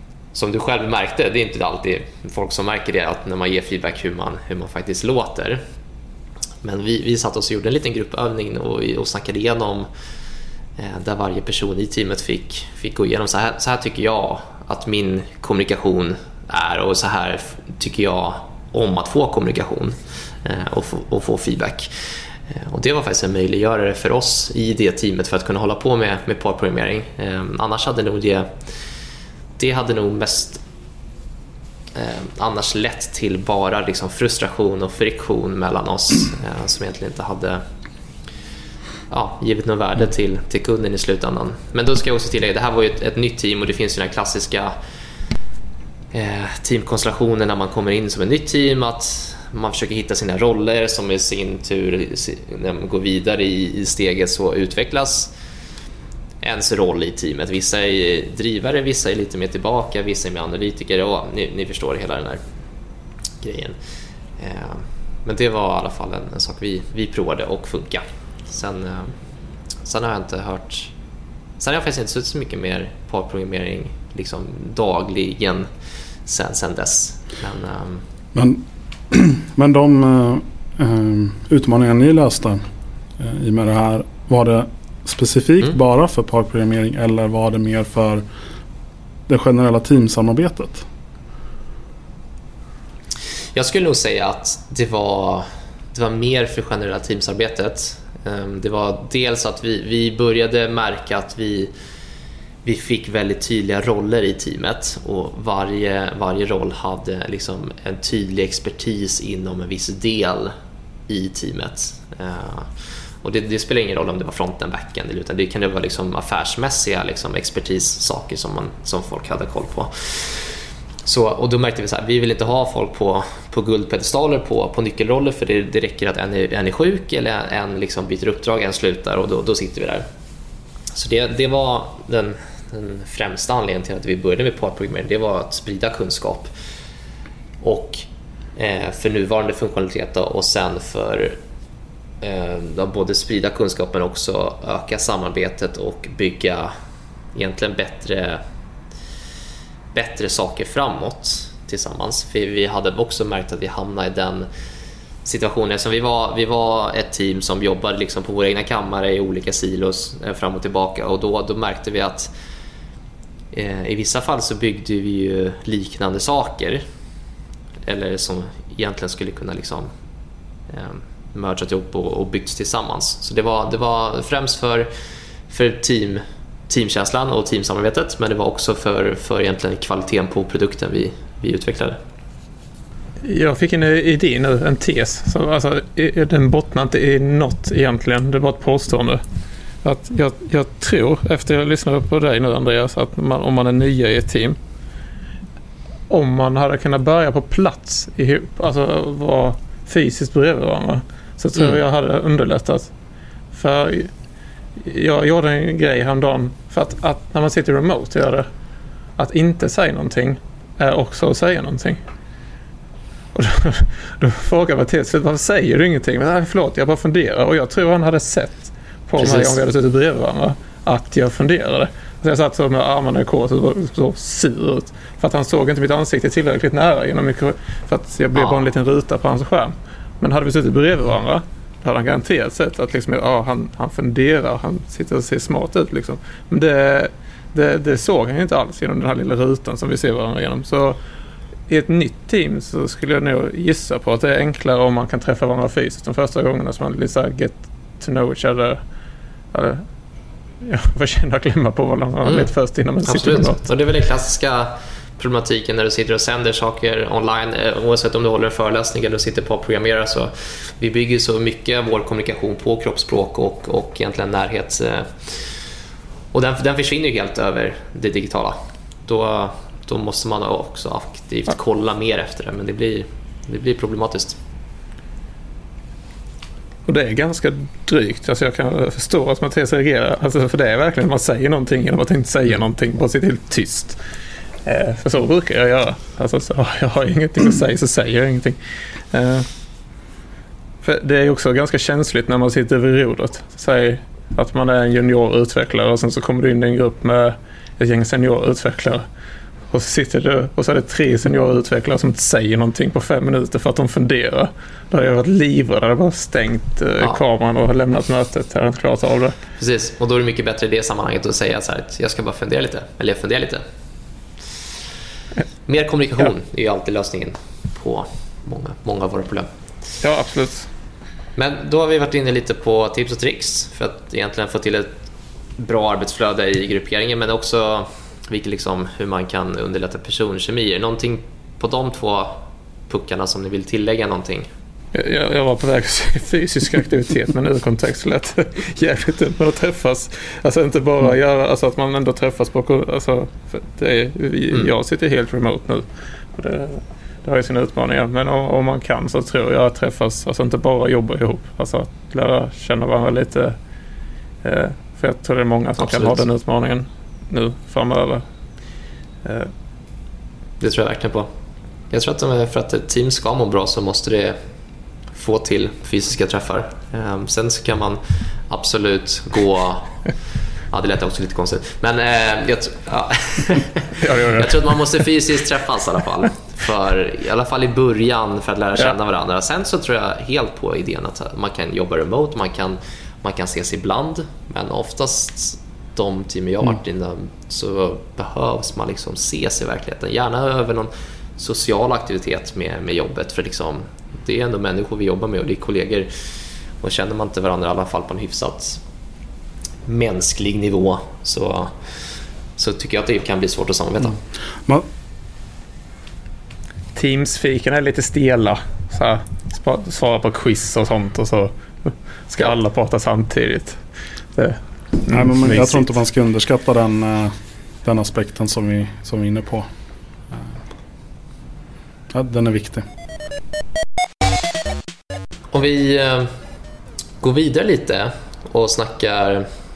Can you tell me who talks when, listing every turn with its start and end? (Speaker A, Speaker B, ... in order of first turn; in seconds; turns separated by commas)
Speaker A: 0.3-5.6, Speaker A: 6.6-9.9, Speaker A: 10.8-21.9, Speaker A: 22.5-28.5, Speaker A: 29.6-30.6, Speaker A: 31.9-37.6, Speaker A: 39.1-44.7, Speaker A: 46.1-55.3, Speaker A: 56.4-62.4, Speaker A: 63.4-63.8, Speaker A: 64.4-69.1, Speaker A: 69.8-70.9, Speaker A: 71.6-75.7, Speaker A: 76.3-78.0, Speaker B: 78.3-82.6, Speaker B: 83.2-88.2, Speaker B: 89.3-90.9, Speaker A: 93.5-101.7, Speaker A: 102.7-110.5, Speaker A: 111.1-112.7, Speaker A: 113.2-120.5, Speaker A: 121.0-130.1, Speaker A: 130.9-136.5, Speaker A: 137.6-141.4, Speaker A: 142.2-146.7, Speaker A: 147.3-148.4, Speaker A: 149.9-154.5, Speaker A: 155.2-162.3, Speaker A: 163.5-166.8, Speaker A: 167.9-169.9, Speaker A: 170.7-174.9, Speaker A: 175.5-182.0, Speaker C: 183.2-189.2, Speaker C: 189.8-194.6, Speaker C: 196.1-202.9, Speaker C: 203.5-204.1, Speaker C: 204.8-208.5, Speaker C: 209.2-212.0, Speaker C: 213.3-241.0, Speaker A: 219.2-219.6, Speaker A: 228.3-228.6, Speaker C: 241.7-248.8, Speaker C: 249.5-249.8, Speaker C: 250.6-253.6, Speaker A: 252.2-252.5, Speaker A: 253.1-265.5, Speaker A: 266.3-274.4, Speaker C: 276.9-284.0, Speaker C: 284.6-288.6, Speaker C: 289.1-289.5, Speaker C: 290.8-299.1, Speaker C: 299.7-309.4, Speaker A: 309.6-313.6, Speaker A: 315.7-319.5, Speaker C: 320.0-320.7, Speaker A: 321.4-324.9, Speaker A: 325.6-334.5, Speaker C: 334.9-353.6, Speaker C: 354.4-358.2, Speaker A: 355.8-356.2, Speaker C: 359.2-359.5, Speaker A: 360.6-361.3, Speaker A: 361.9-364.4, Speaker A: 365.1-370.0, Speaker A: 370.7-396.1, Speaker C: 374.0-374.8, Speaker A: 396.8-398.8, Speaker A: 399.9-401.7, Speaker A: 402.6-404.2, Speaker C: 406.9-413.8, Speaker C: 414.4-415.9, Speaker B: 415.1-419.7, Speaker B: 422.1-422.9, Speaker A: 425.5-426.3, Speaker A: 427.2-429.5